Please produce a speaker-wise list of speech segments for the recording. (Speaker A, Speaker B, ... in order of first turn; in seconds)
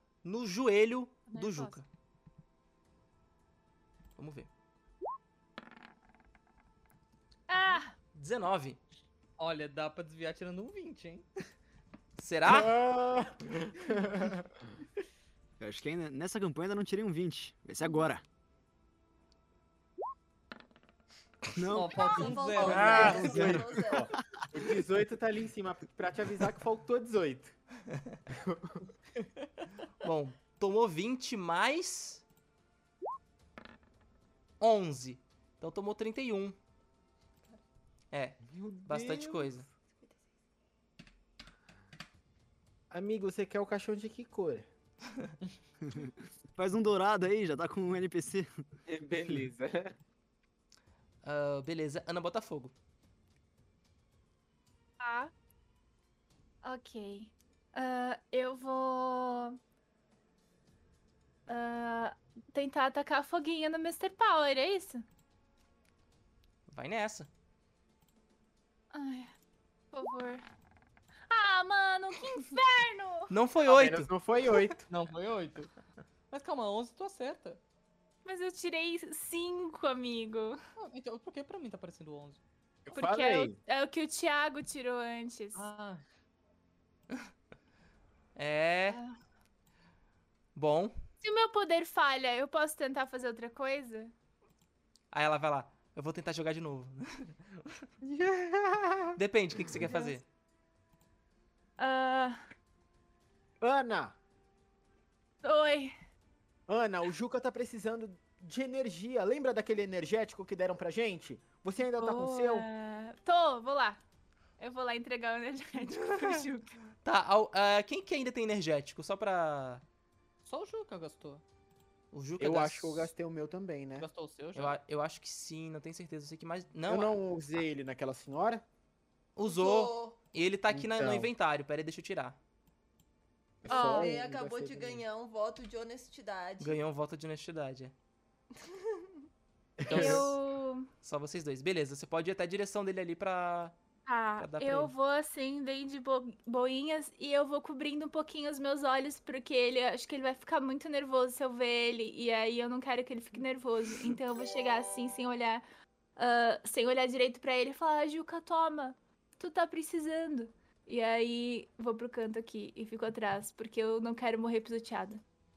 Speaker A: 0.2-1.9, 4.2-4.5, 8.1-8.8, 12.2-12.8, 30.0-32.2, 34.6-36.6, 38.1-39.7, 51.2-52.7, 66.7-67.3, 73.3-74.1, 88.4-89.0, 90.5-91.0, 95.1-97.8, 99.2-100.2, 115.9-116.5, 117.0-119.8, 122.1-123.1, 124.5-127.2, 129.4-132.4, 136.6-137.9, 139.9-140.4, 141.0-143.8, 144.4-144.9
Speaker B: 1.3-1.8, 7.5-7.9, 55.0-55.3, 56.6-59.6, 61.5-65.0, 68.9-69.3, 69.9-70.4, 71.3-73.3, 78.2-80.6, 82.9-85.7, 88.9-89.1, 91.2-94.1, 99.8-100.1, 101.8-102.4, 105.4-105.9, 112.0-114.0, 114.6-116.8, 133.7-134.2, 139.9-140.9, 144.1-155.6, 156.2-165.2
Speaker C: 9.4-11.3, 21.7-23.6, 74.9-75.7, 76.3-77.6, 80.8-82.4, 85.5-86.0, 120.4-121.4, 124.0-124.8
Speaker D: 12.5-14.6, 22.6-27.6, 28.3-28.9, 38.5-39.7, 42.9-44.7, 48.9-49.9, 73.6-74.8, 82.9-83.6, 98.0-100.0, 103.6-104.2, 106.7-112.7, 122.4-124.1, 126.9-128.7, 130.7-131.3, 133.6-135.1, 139.8-140.3
Speaker E: 15.6-18.2, 21.6-23.8, 45.9-48.5
Speaker F: 21.9-24.1, 40.0-40.3, 129.4-130.2, 133.7-136.8, 138.5-139.2